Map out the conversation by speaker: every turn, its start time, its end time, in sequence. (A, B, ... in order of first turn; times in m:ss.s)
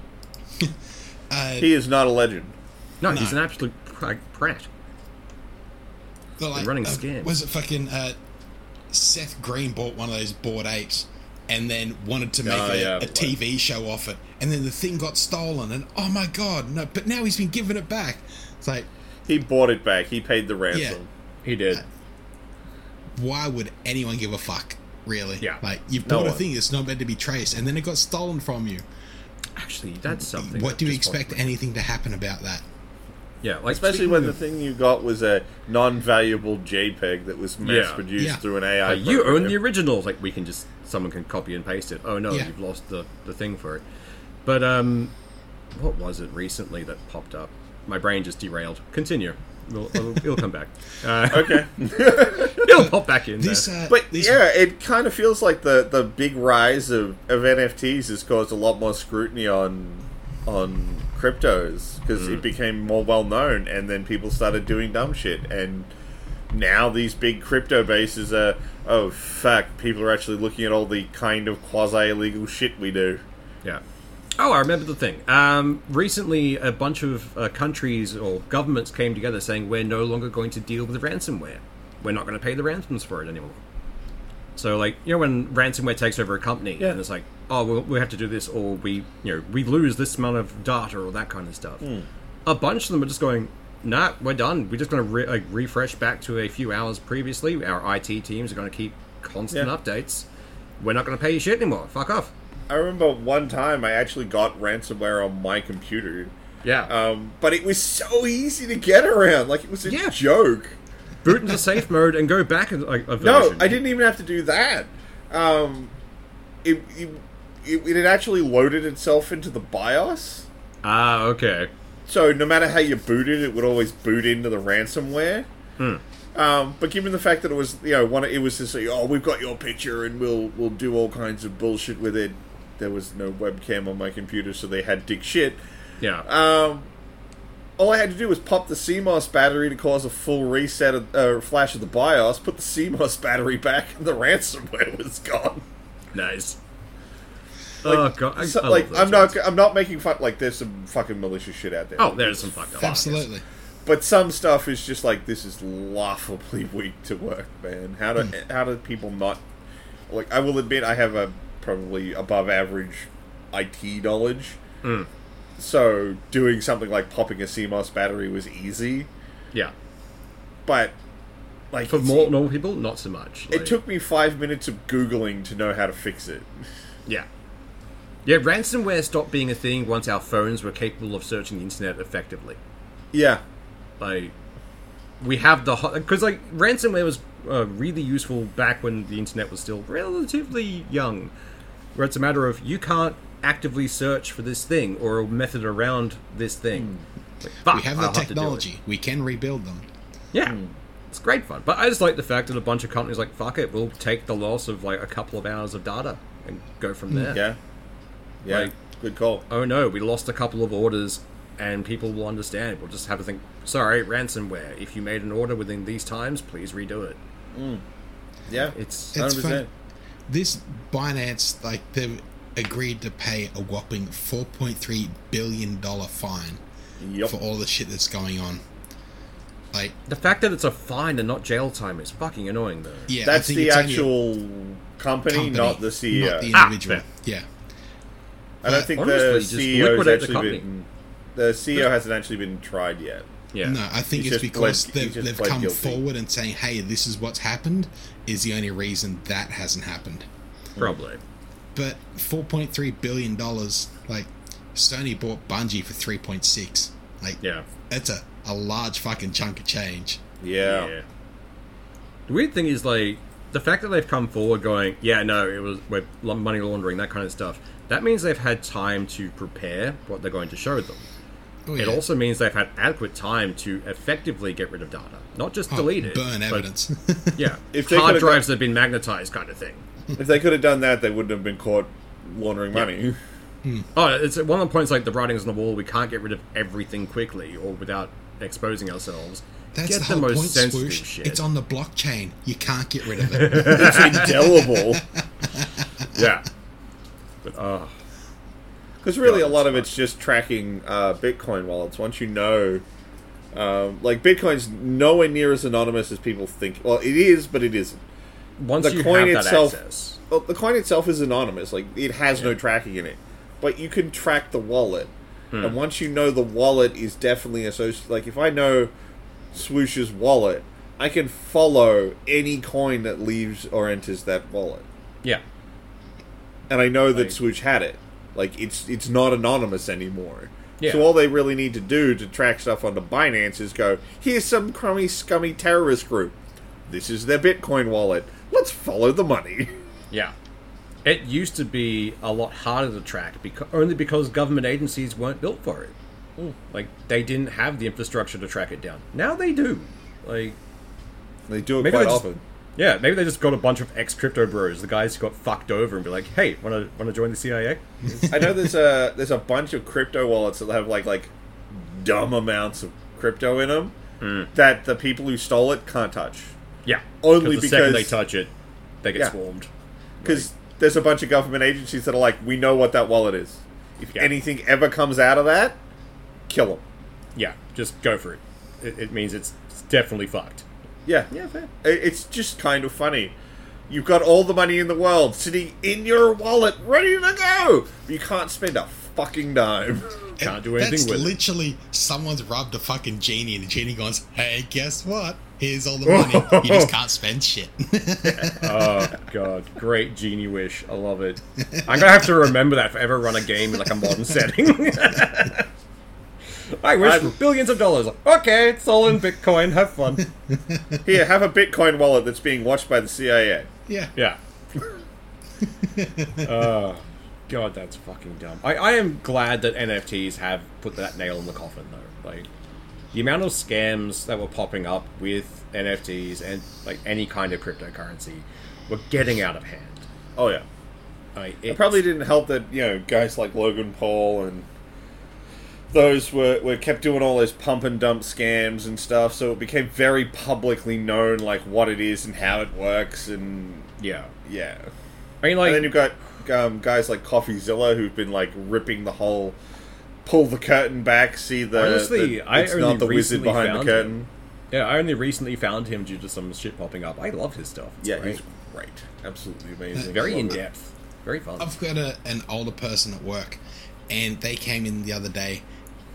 0:01.3-0:01.7 A
0:01.6-0:02.5 B
0:03.0-0:04.7 C
0:03.1-0:03.4 A
0:06.4-0:08.2 A
0:06.6-0:07.3 C
0:08.9-0:18.9 A
0:12.4-0:13.3 C
0:19.3-0:21.1 B
0:20.7-0:21.0 A
0:21.4-0:21.8 C
0:23.2-0:28.8 A
0:26.1-0:26.4 B
0:29.6-0:31.5 C
0:30.2-0:32.6 A
0:33.4-0:34.4 C
0:33.7-0:39.6 B
0:37.6-0:38.0 C
0:38.9-0:43.8 C
0:44.4-0:45.1 C
0:45.8-0:51.7 C
0:51.3-0:52.7 B
0:52.4-0:53.7 C
0:52.7-0:54.4 A
0:53.9-1:05.9 B
1:02.2-1:02.4 C
1:06.5-1:13.2 B
1:14.4-1:23.6 C
1:24.6-1:31.9 C
1:31.8-1:32.1 B
1:32.5-1:40.3 C
1:40.8-1:42.3 C
1:42.7-1:46.3 B
1:46.6-1:46.9 C
1:46.9-1:50.8 B
1:49.9-1:50.2 C
1:51.2-1:53.8 C
1:53.2-1:55.9 B
1:56.6-2:00.5 B
2:00.8-2:01.7 C
2:02.1-2:05.5 B
2:06.4-2:15.6 B
2:16.2-2:16.9 B
2:17.8-2:25.6 B
2:26.1-2:26.6 C
2:27.8-2:29.4 C
2:27.8-2:33.2 B
2:32.0-2:33.2 C
2:32.8-2:33.4 A
2:33.8-2:39.4 B
2:40.1-2:44.6 B
2:44.8-2:45.1 C
2:45.6-2:49.1 B
2:50.7-2:51.0 B
2:51.7-2:52.4 B
2:51.9-2:53.8 C
2:53.5-2:56.6 B
2:58.2-3:02.6 C
3:03.1-3:03.4 B
3:04.0-3:04.3 C
3:05.2-3:11.3 C
3:12.0-3:18.6 C
3:17.7-3:19.9 A
3:20.3-3:20.6 C
3:20.4-3:20.7 B
3:21.1-3:27.4 C
3:27.3-3:27.6 B
3:28.4-3:29.4 B
3:28.5-3:28.7 C
3:29.5-3:37.2 C
3:37.5-3:37.8 B
3:38.5-3:39.7 B
3:38.6-3:39.2 C
3:39.1-3:39.7 A
3:40.3-3:46.6 A
3:47.0-3:47.4 B
3:47.2-3:48.6 A
3:50.1-3:53.1 C
3:53.1-3:54.1 A
3:53.2-3:56.5 B
3:55.3-3:57.5 A
3:56.5-3:57.0 C
3:58.6-4:03.3 B
3:58.7-4:00.6 C
4:03.5-4:03.8 C
4:03.6-4:10.3 A
4:04.1-4:06.0 B
4:10.8-4:11.2 C
4:11.8-4:20.2 A
4:17.4-4:17.7 C
4:20.4-4:20.9 B
4:20.6-4:21.0 C
4:22.3-4:31.0 C
4:31.7-4:32.0 A
4:31.8-4:36.7 C
4:35.7-4:37.5 A
4:37.4-4:39.8 C
4:37.7-4:38.5 B
4:40.2-4:43.2 B
4:43.9-4:51.4 C
4:49.7-4:56.1 A
4:53.2-4:54.3 C
4:53.5-4:55.0 B
4:56.1-4:56.5 C
4:57.4-4:57.9 C
4:59.0-5:02.8 B
4:59.2-4:59.9 C
5:03.5-5:08.0 B
5:08.6-5:10.2 C
5:08.8-5:09.8 B
5:10.3-5:18.9 B
5:19.5-5:24.8 B
5:26.7-5:36.4 B
5:30.8-5:31.1 C
5:36.9-5:39.7 B
5:41.0-5:46.0 C
5:46.7-5:50.6 C
5:51.5-5:52.4 B
5:51.8-5:58.2 C
5:58.1-5:58.6 A
5:58.3-6:04.0 B
6:04.2-6:04.5 C
6:04.5-6:06.5 B
6:06.8-6:08.5 C
6:07.2-6:08.2 B
6:09.0-6:09.7 C
6:10.2-6:10.5 C
6:10.2-6:15.8 B
6:16.5-6:16.8 B
6:17.4-6:20.6 C
6:21.1-6:21.3 B
6:21.3-6:21.7 C
6:21.8-6:23.3 B
6:23.9-6:30.3 B
6:30.4-6:31.4 C
6:30.4-6:39.1 A
6:36.0-6:36.9 C
6:38.4-6:45.7 C
6:41.6-6:42.2 A
6:46.7-6:50.2 C
6:47.0-6:47.4 B
6:50.5-6:51.0 A
6:51.0-6:53.7 B
6:53.9-6:54.1 A
6:55.6-6:56.5 A
6:56.4-7:02.5 C
7:03.1-7:10.1 C
7:10.4-7:10.6 B
7:11.4-7:12.0 C
7:11.7-7:14.7 B
7:15.9-7:23.9 B
7:24.0-7:24.3 C
7:24.4-7:24.9 B
7:25.4-7:25.9 C
7:25.6-7:29.6 B
7:30.2-7:34.3 B
7:31.8-7:34.1 C
7:34.7-7:38.4 C
7:38.0-7:40.6 B
7:40.0-7:41.7 C
7:41.6-7:45.6 A